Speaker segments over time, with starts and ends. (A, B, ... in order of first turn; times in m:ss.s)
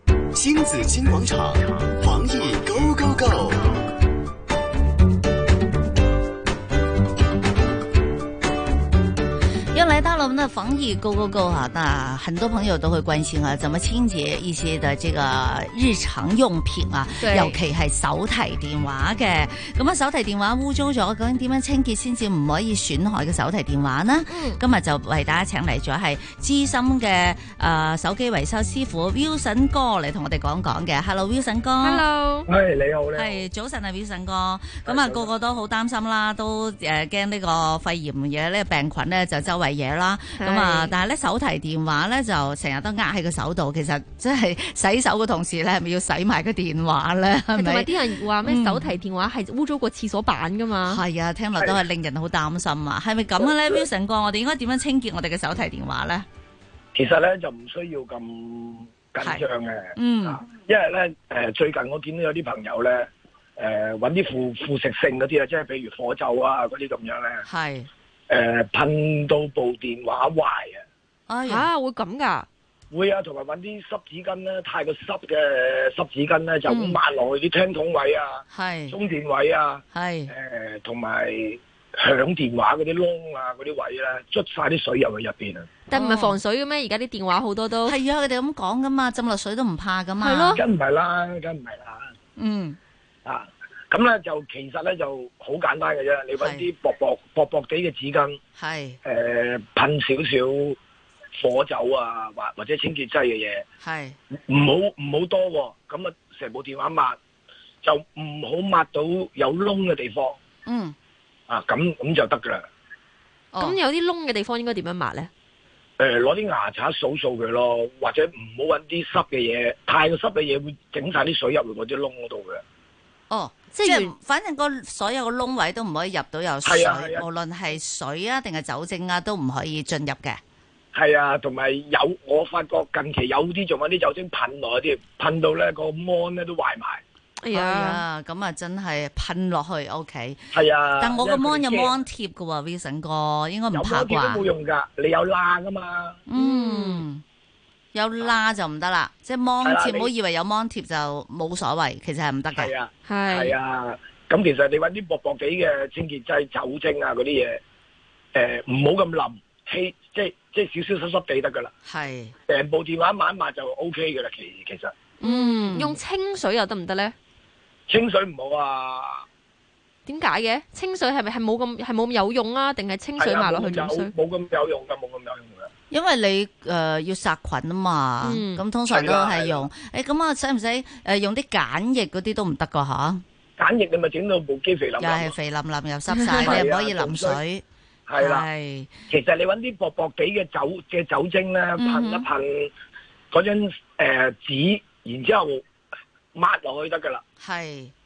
0:00.3-0:03.7 A
0:09.7-0:32.0 B
0:17.2-0:17.6 C
0:24.3-0:24.6 C
0:31.8-0:32.5 C
0:32.5-0:33.4 D
0:33.1-0:48.9 B
0:34.8-0:35.3 D
0:40.4-0:40.9 C
0:47.5-0:51.0 C
0:50.8-0:56.2 B
0:53.4-0:53.8 D
0:56.9-1:07.4 D
0:59.2-1:00.4 B
1:07.4-1:07.9 B
1:08.3-1:10.8 D
1:11.3-1:11.7 B
1:11.5-1:12.5 C
1:12.9-1:25.7 D
1:16.7-1:17.0 B
1:18.5-1:19.0 B
1:19.9-1:20.3 B
1:25.9-1:28.0 C
1:25.9-1:26.4 B
1:27.8-1:30.6 B
1:30.2-1:30.6 C
1:30.5-1:32.1 D
1:32.4-1:32.8 B
1:33.2-1:38.4 D
1:36.4-1:36.7 B
1:38.6-1:39.0 B
1:39.0-1:40.8 D
1:41.3-1:43.6 D
1:43.8-1:44.2 B
1:44.5-1:47.2 D
1:47.8-1:50.4 D
1:50.6-1:51.0 B
1:51.5-1:52.6 D
1:53.5-1:53.8 B
1:53.6-1:55.3 C
1:56.0-2:02.6 D
2:03.3-2:10.4 B
2:03.7-2:04.1 C
2:06.6-2:07.2 D
2:10.9-2:17.0 D
2:17.4-2:18.0 C
2:17.5-2:24.4 B
2:20.5-2:22.0 D
2:23.7-2:26.2 D
2:26.3-2:27.2 B
2:26.4-2:27.0 C
2:27.9-2:32.7 B
2:29.6-2:30.1 D
2:32.5-2:37.6 D
2:33.1-2:33.6 C
2:38.3-2:41.7 D
2:41.8-2:42.3 B
2:42.5-2:44.9 D
2:45.2-2:46.0 B
2:45.2-2:47.1 C
2:47.9-2:49.2 D
2:50.0-2:54.1 C
2:53.2-2:55.7 D
2:55.9-3:03.2 B
2:58.2-2:58.6 C
2:58.9-2:59.7 D
3:03.6-3:05.3 D
3:05.0-3:07.6 B
3:06.4-3:07.4 D
3:08.1-3:08.4 D
3:08.2-3:08.9 B
3:09.1-3:12.7 D
3:11.8-3:12.3 B
3:13.3-3:15.6 D
3:16.3-3:17.2 D
3:17.4-3:17.9 B